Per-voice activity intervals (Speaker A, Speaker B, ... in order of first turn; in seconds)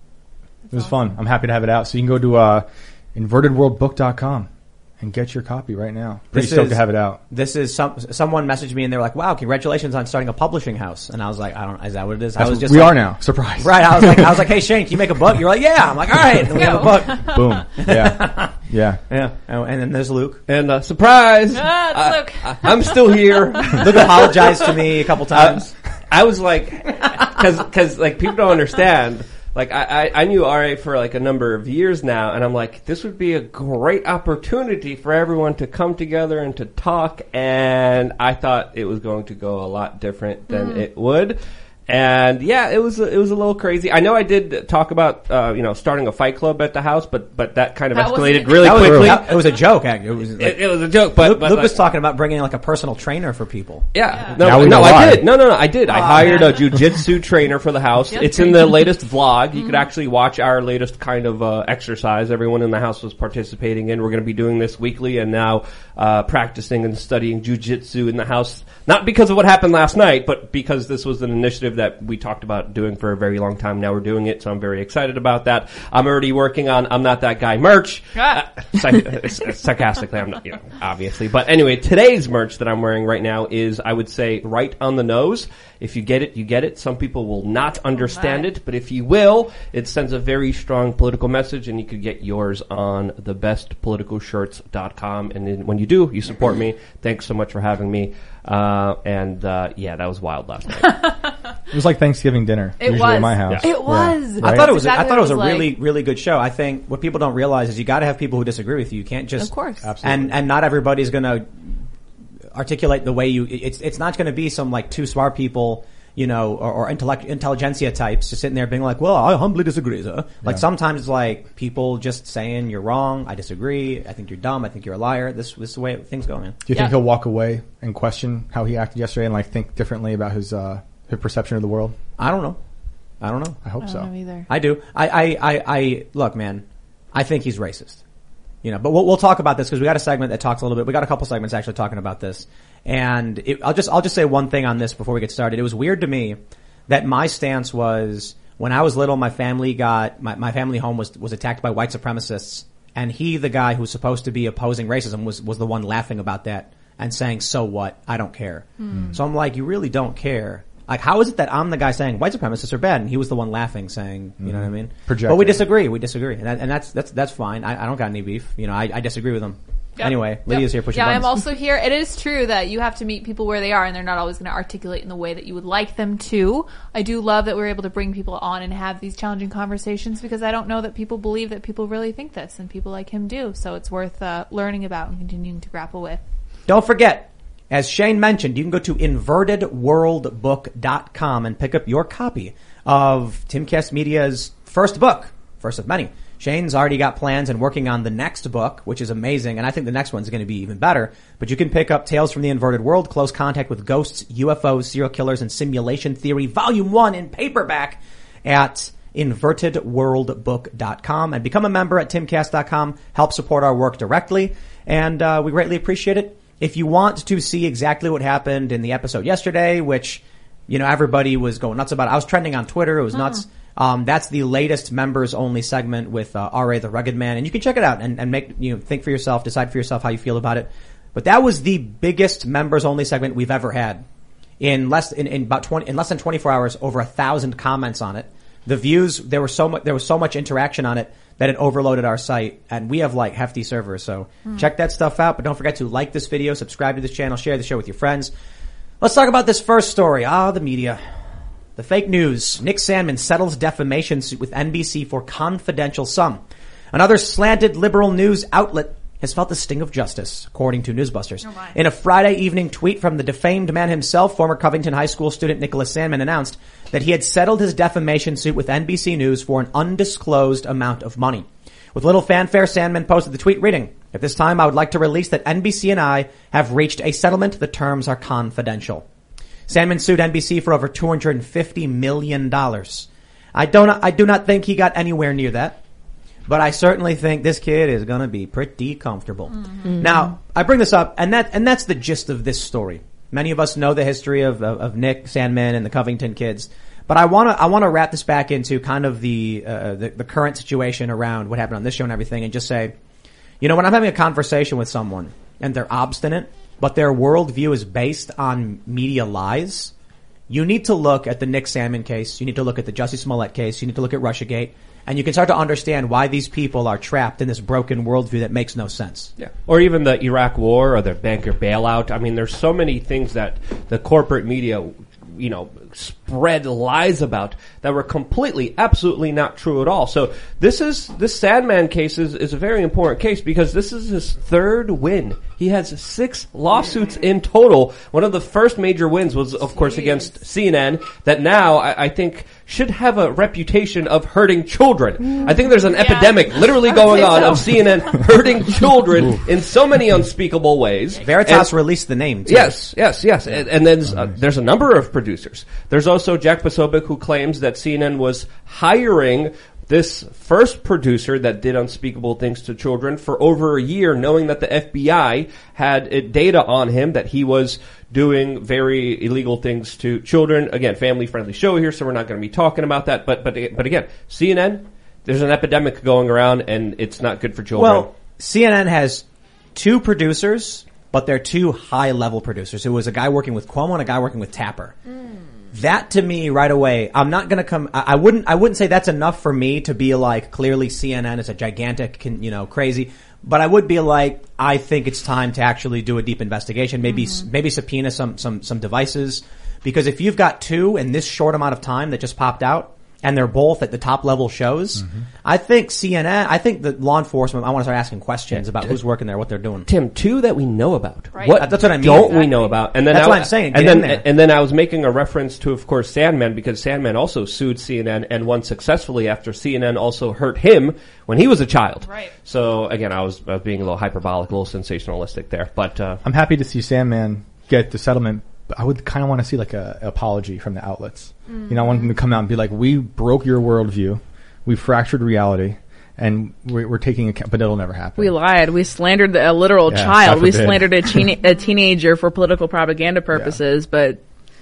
Speaker A: 0.7-0.9, 16.5-17.6, 21.5-24.8, 40.5-40.9, 47.9-49.1, 54.1-54.5, 55.9-56.9, 58.1-58.9, 59.5-59.9, 78.2-78.4, 88.0-88.5, 100.8-101.3, 102.8-105.8, 109.4-109.9, 126.7-127.0, 133.8-134.5, 158.8-159.2, 170.0-186.2, 261.4-261.8, 289.5-289.9, 339.7-340.3, 345.4-348.9, 385.1-385.4, 397.1-397.4, 411.3-412.9, 422.0-422.3, 431.5-432.1
Speaker B: 0.7-7.2, 12.4-14.5, 17.3-19.0, 48.8-49.1, 54.4-55.4, 101.7-104.7, 109.8-110.4, 126.7-132.0, 133.6-134.1, 158.9-159.2, 164.4-165.7, 426.2-438.3, 439.9-441.3, 443.3-443.6
Speaker C: 6.3-18.6, 19.1-20.4, 23.8-25.7, 48.6-53.9, 54.6-55.0, 104.4-111.8, 112.5-126.6, 132.2-132.6, 133.2-133.7, 134.5-138.0, 138.6-171.3, 186.7-234.1, 234.6-248.3, 249.0-251.0, 251.8-256.4, 256.9-279.0, 279.7-285.8, 286.5-302.9, 303.6-309.9, 310.5-319.3, 351.2-352.8, 377.8-379.2, 379.8-384.9, 385.7-409.9, 411.6-412.5, 413.1-414.2
Speaker D: 20.5-49.3, 50.4-51.8, 53.9-101.0, 319.4-351.7, 352.5-378.1, 409.9-426.2
Speaker E: 289.9-290.2, 438.2-444.2